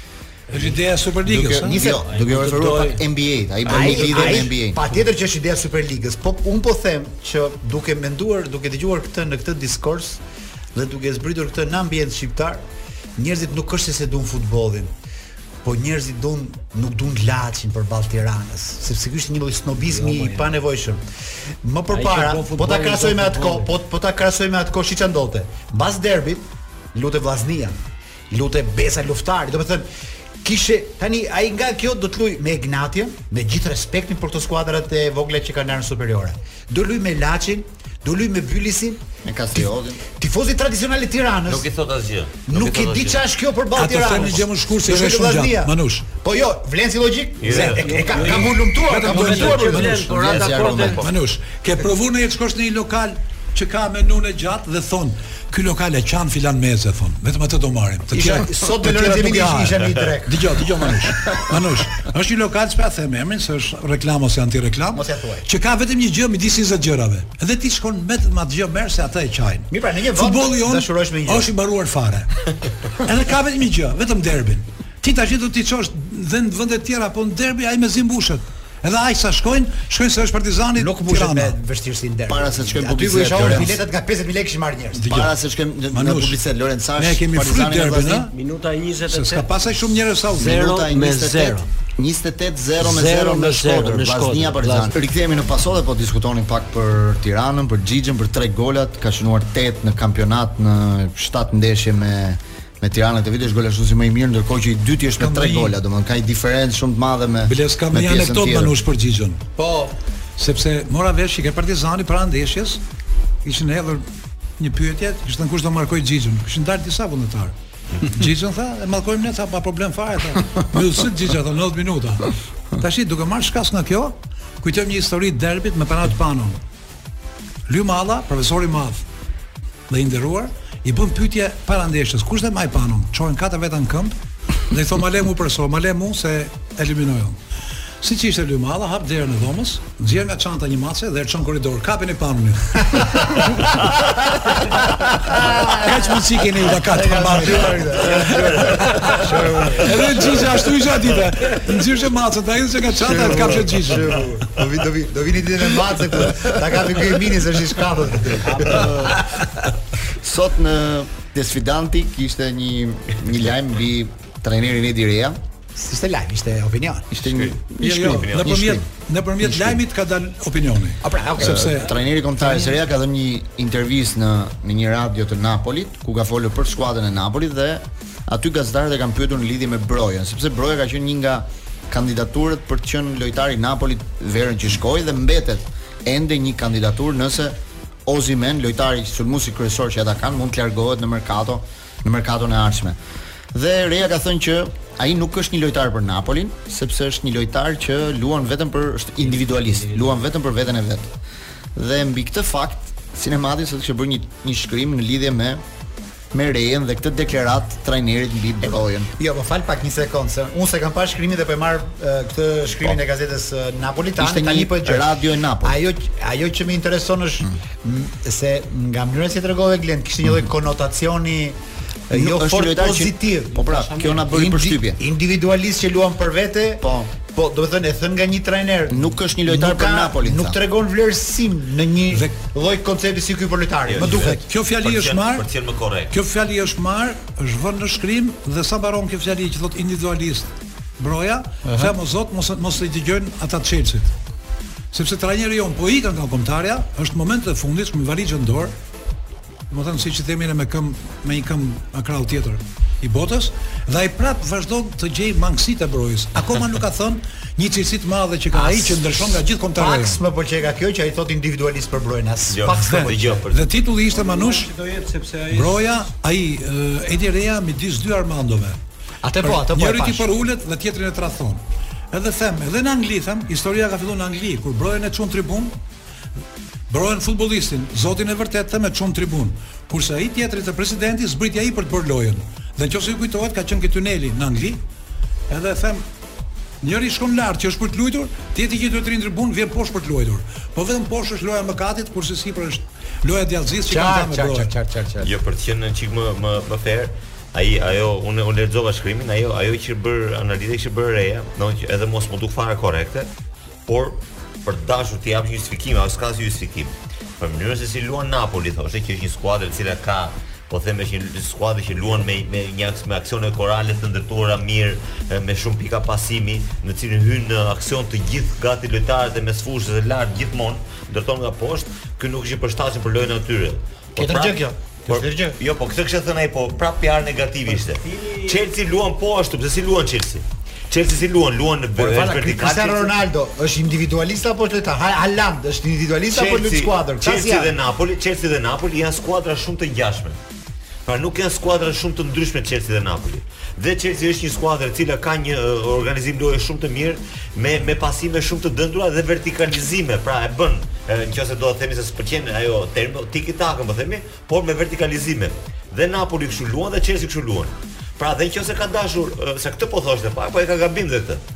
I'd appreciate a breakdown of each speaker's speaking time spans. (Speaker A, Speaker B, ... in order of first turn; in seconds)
Speaker A: 0.5-1.8, 43.7-46.1, 48.0-50.3, 51.0-72.5, 73.0-81.6, 83.4-83.6, 84.9-85.3, 85.9-86.4, 87.0-88.3, 89.1-90.6, 105.2-105.7, 107.4-109.4, 110.4-112.8, 113.4-114.0, 114.6-126.6, 127.7-129.0, 129.9-134.1, 134.7-137.4, 138.0-143.8, 145.3-154.3, 167.8-172.7, 234.1-235.5, 236.1-244.1, 244.9-248.7, 249.7-260.2, 262.7-264.7, 265.5-268.8, 269.4-275.7, 276.9-284.8, 285.5-286.0, 286.8-294.7
Speaker B: 1.2-4.8, 39.2-40.0, 50.1-51.0, 82.3-83.8, 85.1-88.3, 90.4-108.7, 160.1-165.4, 167.1-168.8, 169.4-169.8, 171.4-193.0, 193.5-201.1, 201.7-205.6, 206.3-209.1, 214.2-215.8, 222.1-225.0, 226.8-227.1, 228.9-230.6
Speaker C: 1.6-2.0, 3.6-10.2, 10.7-12.6, 13.2-14.9, 15.6-21.0, 21.6-27.8, 28.3-29.9, 30.4-39.0, 40.1-41.7, 42.5-49.9, 58.1-60.6, 64.9-65.5, 69.7-71.5, 80.7-85.1, 145.2-146.2, 146.8-150.4, 153.0-159.5, 165.7-167.1, 171.0-171.8, 208.6-215.1, 215.6-221.6, 222.1-234.4, 241.7-241.9, 258.5-259.1, 259.8-263.4, 269.2-270.3, 293.9-295.3, 324.2-325.6, 332.0-337.8
Speaker D: 1.8-3.0, 3.7-4.5, 19.8-20.6, 21.9-23.7, 47.5-51.0, 88.3-89.5, 90.4-91.7, 92.8-94.9, 158.4-158.9, 199.2-200.2, 223.5-224.3, 264.1-265.9, 327.7-328.6
Speaker E: 41.5-43.2, 44.1-44.4, 47.4-48.5, 50.1-51.1, 148.1-149.3, 167.2-168.5, 233.9-236.1, 262.5-263.7, 295.2-303.3, 303.9-333.1, 336.3-340.4, 341.1-361.4